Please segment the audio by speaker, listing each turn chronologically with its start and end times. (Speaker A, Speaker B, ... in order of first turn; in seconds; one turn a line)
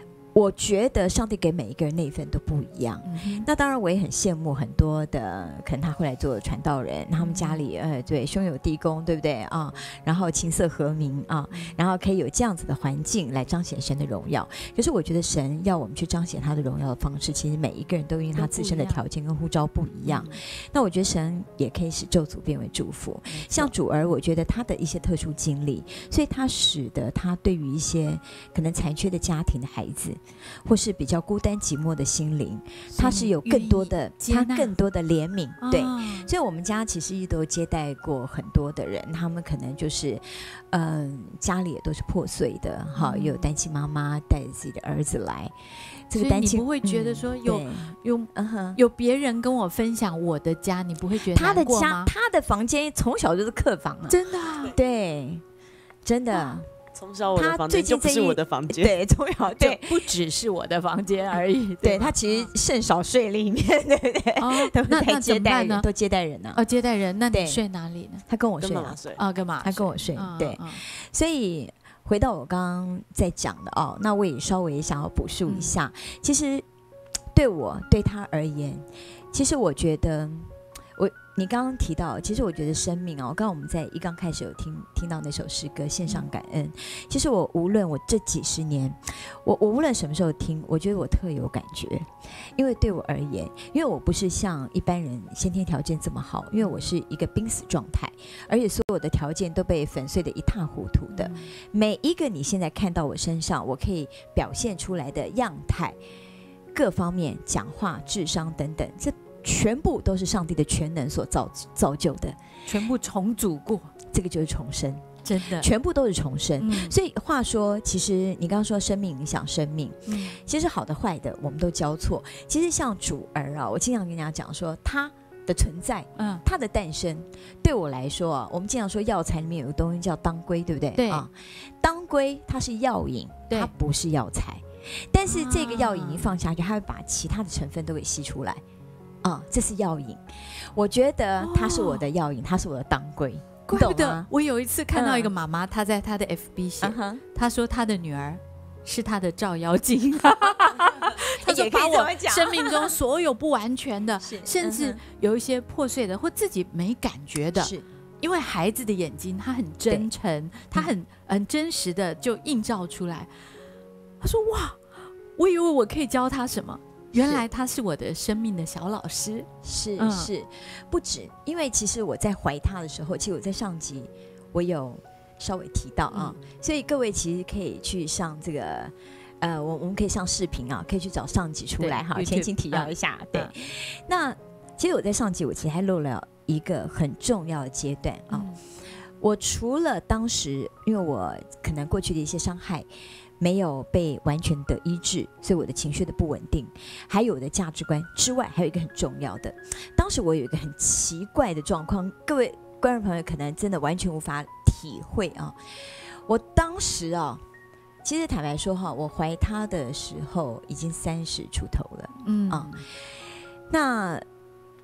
Speaker A: 0.3-45.5
Speaker B: 3.0-3.5
Speaker B: 7.2-7.6
Speaker B: 11.5-11.8
Speaker B: 18.3-19.0
Speaker B: 20.1-20.4
Speaker B: 23.3-23.7
Speaker B: 32.9-34.7
Speaker B: 35.6-36.3
Speaker B: 42.9-43.5
Speaker A: 46.1-48.8
Speaker B: 46.1-52.1
Speaker A: 51.2-55.4
Speaker B: 54.1-54.8
Speaker A: 56.0-56.7
Speaker C: 56.9-59.0
Speaker A: 57.3-60.1
Speaker B: 59.5-62.5
Speaker A: 61.8-66.6
Speaker B: 64.4-65.9
Speaker B: 66.5-68.2
Speaker A: 67.3-67.6
Speaker A: 68.3-69.0
Speaker C: 68.6-69.2
Speaker B: 69.2-70.8
Speaker A: 69.6-76.6
Speaker B: 75.5-75.8
Speaker A: 77.3-106.0
Speaker B: 96.6-96.9
Speaker B: 101.1-101.5
Speaker A: 106.7-112.4
Speaker B: 112.7-113.9
Speaker A: 114.1-138.6
Speaker B: 115.2-115.7
Speaker B: 116.6-117.0
Speaker B: 120.1-120.4
Speaker B: 126.2-126.4
Speaker B: 130.9-131.2
Speaker B: 135.3-136.4
Speaker A: 139.2-144.3
Speaker B: 141.4-142.0
Speaker B: 143.7-163.3
Speaker A: 144.9-145.3
Speaker A: 146.8-147.2
Speaker A: 151.2-152.9
Speaker A: 154.2-155.0
Speaker A: 157.6-157.8
Speaker B: 164.2-170.3
Speaker A: 167.1-167.4
Speaker A: 169.6-188.5
Speaker B: 176.1-176.4
Speaker B: 181.8-183.5
Speaker B: 188.3-188.6
Speaker A: 189.2-192.9
Speaker A: 193.4-207.4
Speaker A: 208.0-212.7
Speaker B: 212.2-212.8
Speaker A: 213.7-214.2